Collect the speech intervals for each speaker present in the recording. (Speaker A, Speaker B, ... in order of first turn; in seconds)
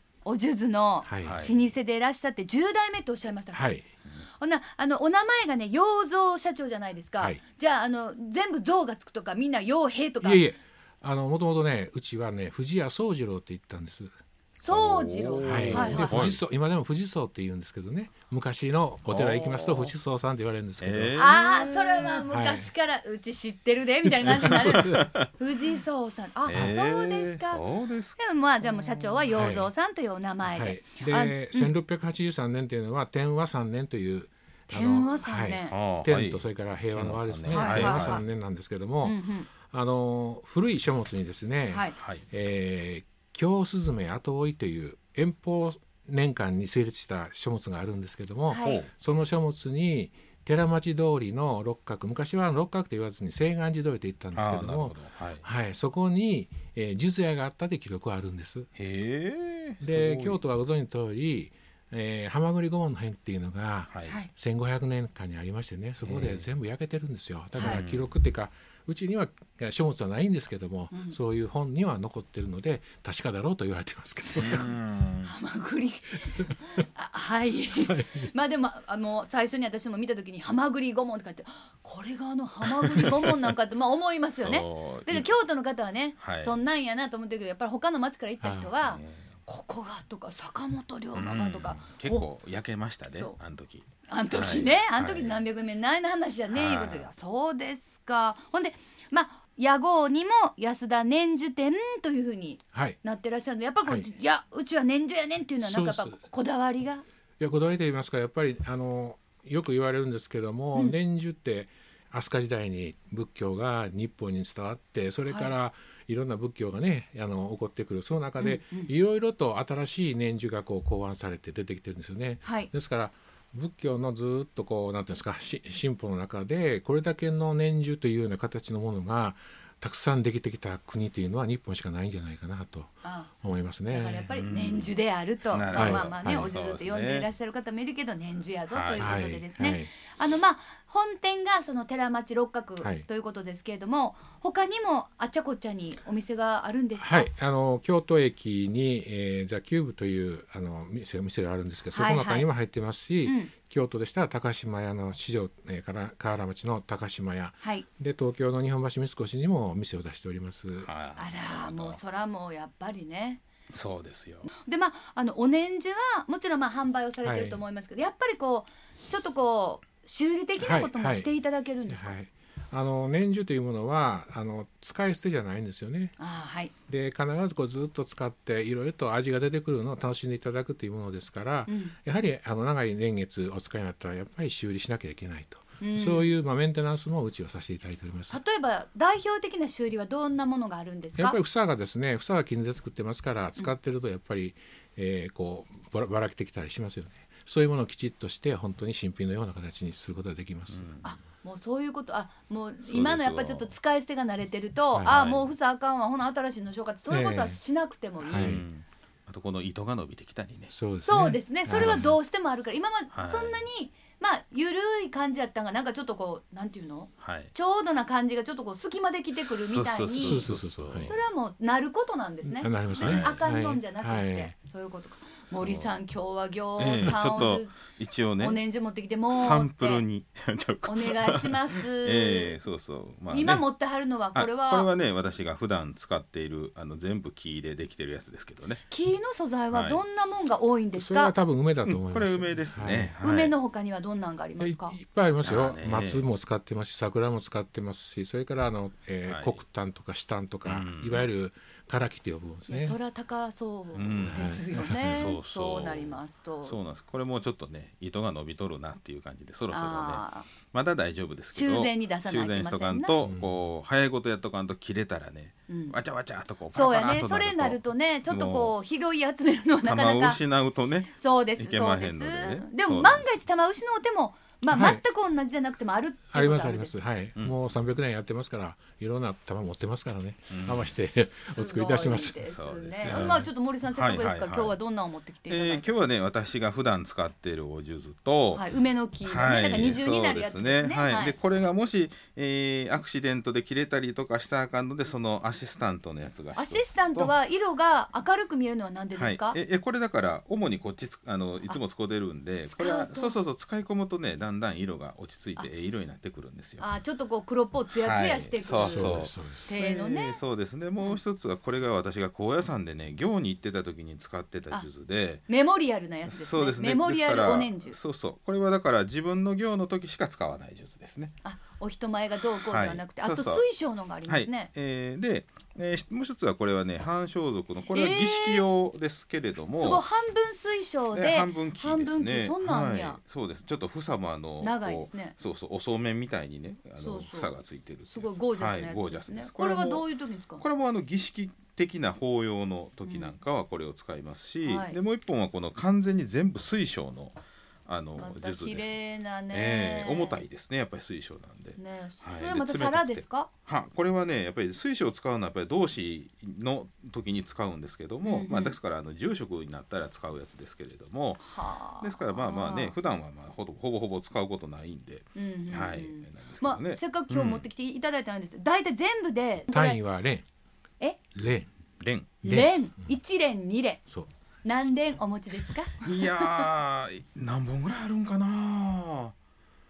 Speaker A: 0.2-3.7, 4.4-10.5, 14.5-16.3, 21.1-27.6, 28.2-31.7, 34.7-35.7, 37.5-38.2, 39.0-39.5, 41.7-42.0, 48.5-48.8, 70.9-71.2, 75.2-92.3, 94.1-107.0, 115.3-115.5, 118.4-118.9, 122.4-122.7, 133.0-133.3, 133.9-147.3, 151.9-152.5, 153.2-153.5, 161.2-163.4, 164.6-172.2, 176.2-176.7, 181.7-181.9, 185.8-186.3, 188.3-191.4, 201.0-208.6, 211.0-220.5, 221.0-227.8, 228.4-230.0, 230.8-232.6, 233.3-234.9, 238.9-241.3, 243.2-245.0, 252.7-256.7, 259.7-260.5, 261.5-263.2, 265.7-266.0, 266.7-270.4, 271.1-276.9, 281.5-285.9, 288.5-291.4, 296.6-299.6, 302.6-303.3, 306.8-310.4, 315.5-318.0, 321.4-324.7, 327.9-328.7, 329.7-333.2, 334.6-335.3, 337.0-340.6, 343.0-343.4, 344.6-345.0, 348.2-350.4, 351.8-353.5, 358.2-358.8, 361.4-362.9, 365.4-370.0, 372.4-374.0, 374.6-376.6
Speaker B: 1.0-1.4, 3.5-3.9, 10.2-14.1, 15.4-21.2, 22.3-22.7, 24.1-25.0, 29.3-29.7, 30.5-58.7, 59.8-74.7, 77.8-78.3, 88.4-88.7, 102.7-103.0, 105.6-106.2, 107.4-134.3, 135.7-136.5, 139.0-139.9, 147.0-160.9, 167.2-167.6, 170.6-171.3, 171.9-176.2, 176.9-188.4, 191.2-200.9, 207.1-207.6, 208.2-208.6, 210.7-212.1, 220.1-221.1, 222.4-224.5, 240.9-243.1, 244.6-253.0, 254.2-255.3, 263.2-263.5, 274.7-275.0, 276.3-282.4, 283.1-283.4, 308.8-309.7, 369.7-370.4, 371.3-371.7, 372.4-372.9
Speaker C: 1.2-1.5, 14.7-16.4, 19.1-19.9, 20.8-22.2, 24.3-25.2, 26.4-29.2, 35.7-38.2, 42.0-42.2, 48.6-48.9, 54.3-55.4, 58.7-60.4, 63.9-64.1, 66.0-66.4, 67.6-68.1, 74.3-75.3, 84.4-85.3, 86.2-86.6, 88.8-89.4, 91.1-95.4, 96.5-97.1, 134.3-134.9, 135.5-137.3, 138.7-139.1, 160.8-162.0, 163.7-164.5, 200.7-201.1, 202.8-203.7, 205.0-205.5, 208.4-210.7, 211.7-212.1, 213.1-213.6, 217.2-217.5, 219.5-221.2, 222.9-223.4, 225.5-225.9, 226.8-228.6, 229.3-233.7, 234.3-238.8, 239.7-240.0, 241.8-243.5, 245.4-246.3, 249.2-249.6, 250.6-251.3, 253.9-268.7, 269.8-273.4, 277.4-277.7, 280.5-280.9, 282.4-284.8, 285.5-288.6, 289.2-297.4, 299.1-306.9, 308.0-315.4, 316.2-321.3, 322.6-323.7, 324.2-330.0, 331.1-340.0, 340.6-349.0, 349.5-367.7, 372.0-372.4, 376.0-379.3